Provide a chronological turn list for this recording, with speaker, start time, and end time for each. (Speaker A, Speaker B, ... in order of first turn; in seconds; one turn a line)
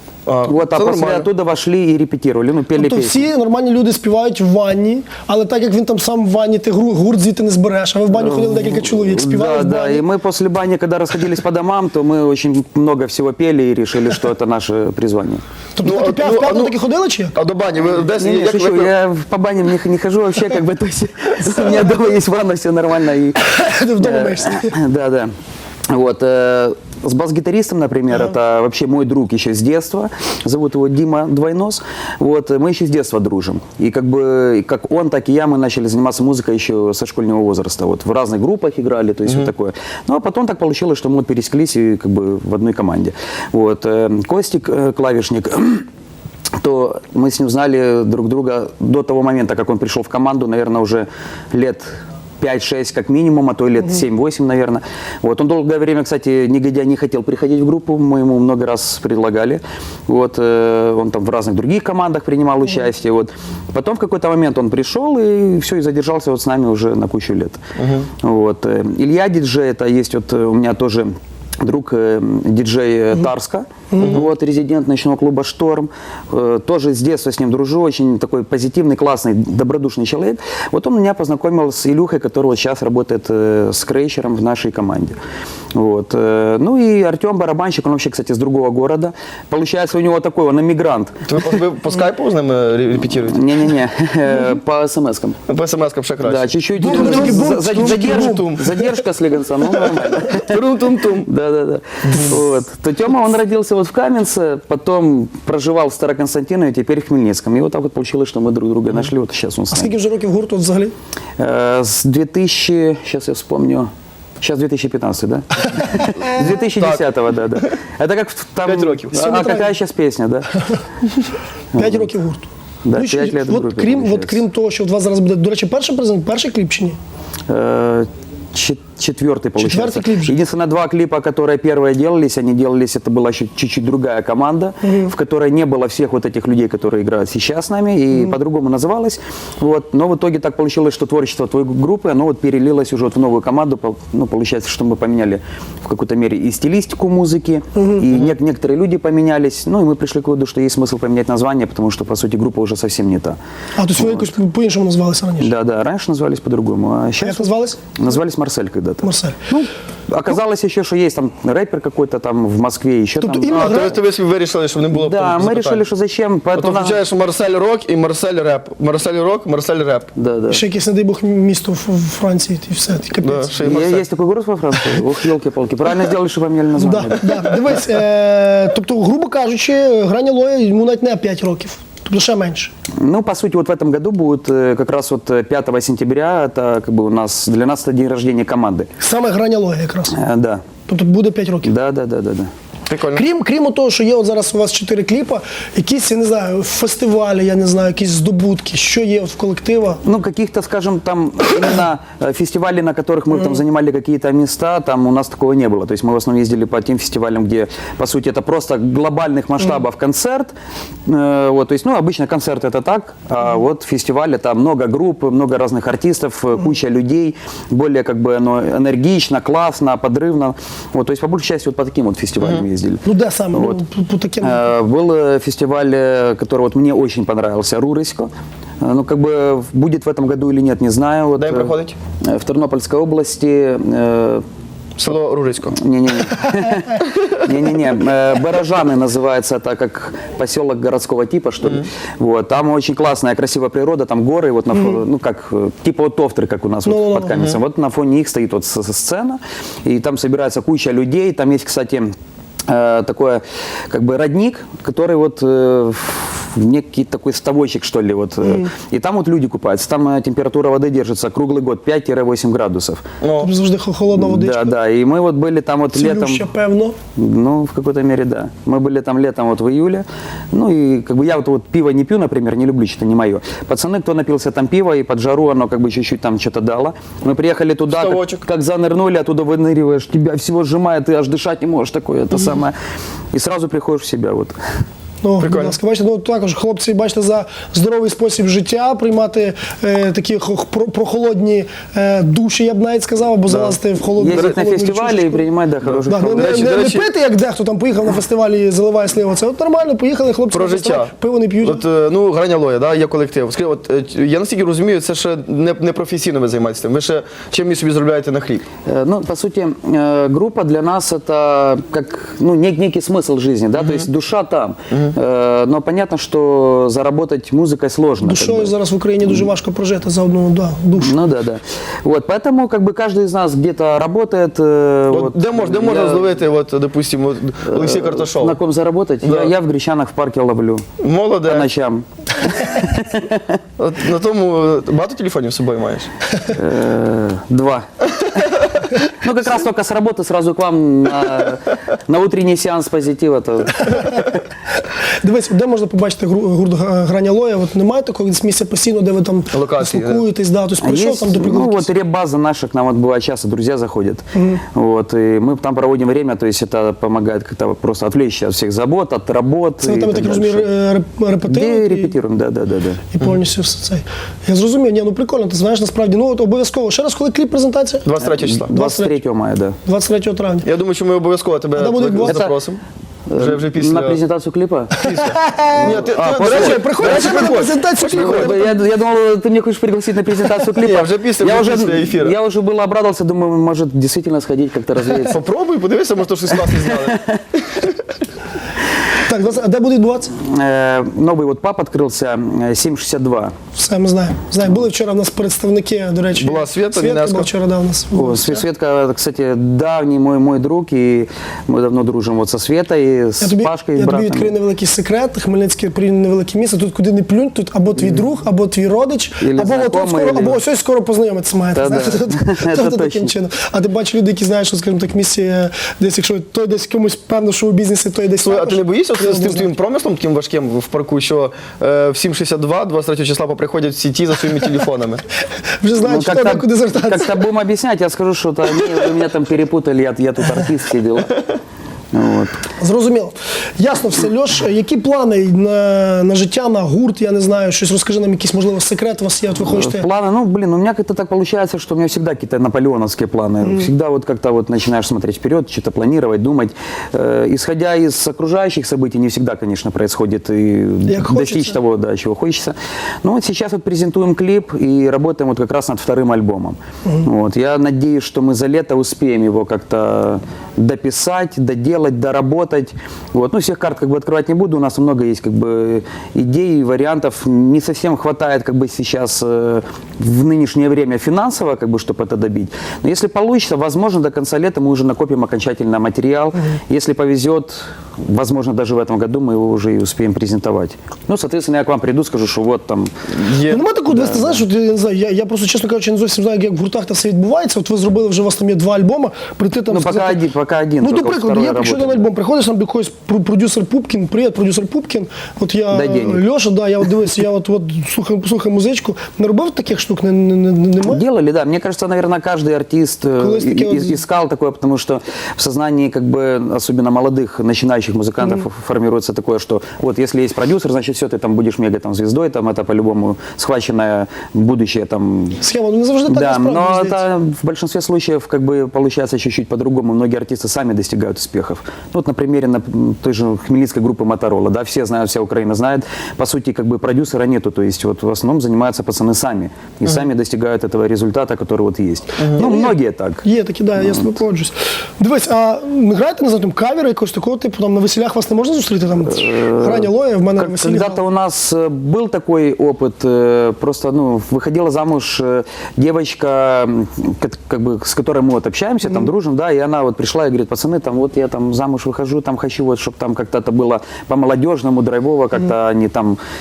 Speaker A: 0.2-1.3
Speaker B: 0.4-3.3
Speaker C: 2.8-10.1
Speaker B: 8.1-15.4
Speaker C: 15.8-17.4
Speaker A: 15.8-16.8
Speaker A: 17.3-18.9
Speaker B: 18.0-25.3
Speaker C: 23.4-24.8
Speaker B: 25.9-45.9
Speaker B: 46.6-67.6
Speaker A: 67.8-68.1
Speaker B: 68.2-71.1
Speaker B: 71.6-85.2
Speaker C: 73.9-74.2
Speaker A: 74.0-74.3
Speaker B: 85.7-91.4
Speaker A: 91.3-93.5
Speaker B: 93.2-95.4
Speaker A: 95.5-98.8
Speaker B: 96.2-100.6
Speaker C: 96.8-98.5
Speaker A: 100.0-101.3
Speaker B: 101.2-109.9
Speaker C: 109.7-110.9
Speaker B: 111.4-113.9
Speaker B: 114.4-120.5
Speaker A: 116.8-117.0
Speaker A: 118.6-119.2
Speaker C: 119.1-119.7
Speaker B: 121.8-122.1
Speaker C: 121.8-127.0
Speaker B: 122.8-124.4
Speaker B: 127.5-153.4
Speaker C: 129.6-130.4
Speaker C: 134.8-135.1
Speaker C: 147.8-148.1
Speaker C: 153.8-155.5
Speaker B: 154.0-154.3
Speaker B: 155.4-164.0
Speaker C: 157.2-158.0
Speaker C: 159.0-159.4
Speaker C: 163.2-164.0
Speaker A: 163.5-165.8
Speaker B: 164.9-167.0
Speaker A: 166.5-170.1
Speaker B: 170.2-170.6
Speaker C: 170.5-173.7
Speaker A: 173.2-174.0
Speaker B: 173.6-177.5
Speaker C: 176.8-182.7
Speaker B: 183.0-188.9
Speaker C: 189.0-190.2
Speaker B: 190.1-190.6
Speaker C: 190.9-191.7
Speaker B: 191.6-192.5
Speaker A: 192.9-193.2
Speaker C: 193.1-200.0
Speaker B: 200.0-210.5
Speaker B: 211.1-223.8
Speaker C: 223.0-224.7
Speaker B: 224.4-228.3
Speaker B: 228.8-234.4
Speaker A: 231.4-232.0
Speaker A: 235.0-235.8
Speaker B: 235.7-252.1
Speaker C: 244.7-245.0
Speaker C: 246.8-247.4
Speaker B: 252.7-263.0
Speaker C: 258.4-258.7
Speaker A: 263.2-263.5
Speaker C: 263.4-264.8
Speaker B: 264.1-266.4
Speaker C: 265.9-267.0
Speaker B: 267.2-282.8
Speaker A: 277.9-278.4
Speaker B: 283.3-284.6
Speaker C: 285.2-295.5
Speaker A: 285.4-285.8
Speaker A: 293.5-293.8
Speaker B: 294.2-296.7
Speaker A: 294.3-294.5
Speaker A: 295.9-297.1
Speaker C: 296.1-301.8
Speaker A: 300.5-301.1
Speaker A: 301.6-308.6
Speaker B: 308.9-318.7
Speaker C: 318.2-321.2
Speaker B: 321.0-326.3
Speaker A: 325.1-328.6
Speaker B: 327.7-330.9
Speaker A: 329.2-329.5
Speaker A: 331.0-331.7
Speaker B: 331.4-333.6
Speaker A: 333.8-336.1
Speaker B: 336.5-344.3
Speaker C: 345.2-351.9
Speaker A: 349.5-350.2
Speaker B: 350.8-360.7
Speaker C: 354.3-354.6
Speaker C: 359.8-362.1
Speaker B: 361.5-363.0
Speaker C: 363.1-368.1
Speaker A: 368.0-368.7
Speaker B: 368.2-369.8
Speaker C: 368.7-369.2
Speaker C: 369.9-370.7
Speaker A: 370.6-372.8
Speaker C: 371.8-372.5
Speaker B: 372.2-372.5
Speaker B: 373.3-375.1
Speaker A: 373.4-374.2
Speaker C: 375.0-378.8
Speaker A: 375.0-378.6
Speaker B: 375.7-385.4
Speaker A: 380.8-382.4
Speaker A: 385.3-387.9
Speaker B: 386.5-387.4
Speaker C: 389.2-390.3
Speaker B: 390.4-393.5
Speaker C: 393.8-398.6
Speaker A: 396.3-397.5
Speaker B: 398.1-404.5
Speaker C: 403.4-419.7
Speaker B: 409.4-410.6
Speaker B: 411.8-413.3
Speaker A: 418.4-425.2
Speaker C: 425.8-427.5
Speaker B: 426.0-431.4
Speaker B: 432.1-432.6
Speaker C: 432.8-440.1
Speaker B: 439.6-483.1
Speaker C: 443.6-443.9
Speaker C: 451.1-451.8
Speaker A: 483.3-483.9
Speaker C: 483.7-490.4
Speaker B: 484.1-484.6
Speaker B: 489.9-492.3
Speaker C: 491.0-501.2
Speaker B: 495.9-496.4
Speaker B: 501.0-515.6
Speaker C: 503.4-504.2
Speaker C: 515.6-517.2
Speaker B: 516.3-533.4
Speaker C: 532.6-541.2
Speaker B: 539.2-556.4